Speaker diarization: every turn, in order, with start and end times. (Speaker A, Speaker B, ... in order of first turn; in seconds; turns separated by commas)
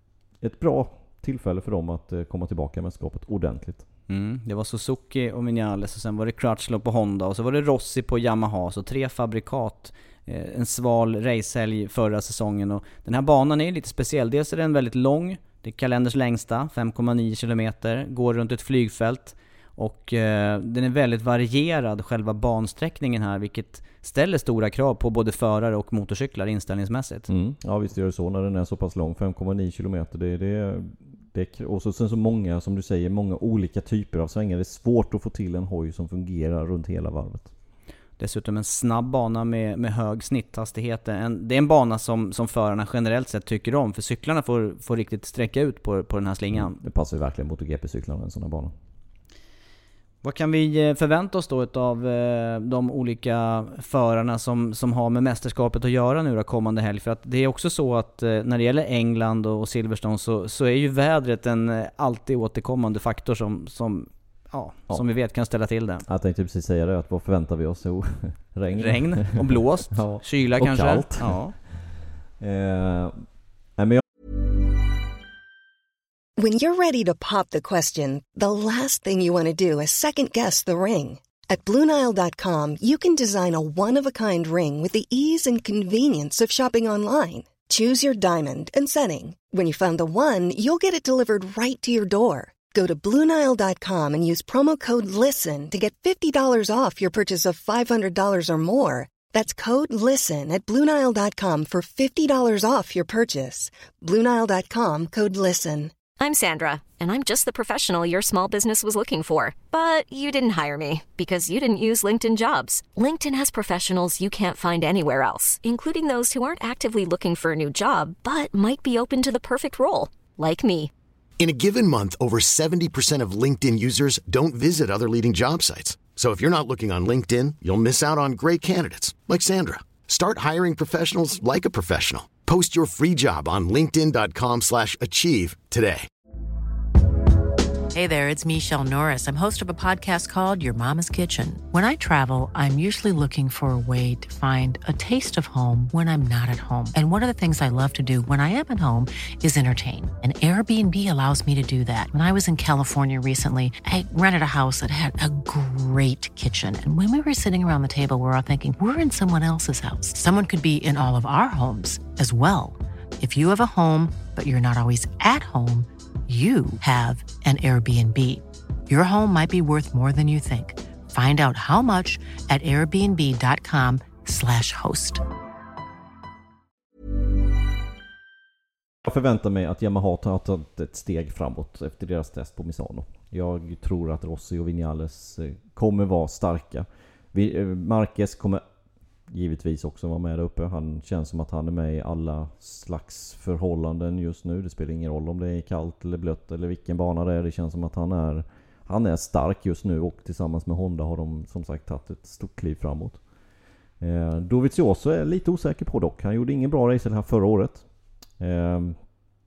Speaker A: 0.4-3.9, Speaker B: 4.1-27.3, Speaker A: 27.3-37.5, Speaker B: 38.2-46.8, Speaker A: 46.5-48.7, Speaker B: 50.2-66.1, Speaker A: 66.1-73.2, Speaker B: 68.7-71.6, Speaker A: 73.8-74.0, Speaker C: 76.4-105.9, Speaker D: 106.2-120.9, Speaker E: 121.4-136.1, Speaker F: 137.9-175.2, Speaker A: 179.0-188.6, Speaker A: 189.3-203.2, Speaker A: 204.0-207.9, Speaker A: 208.4-209.0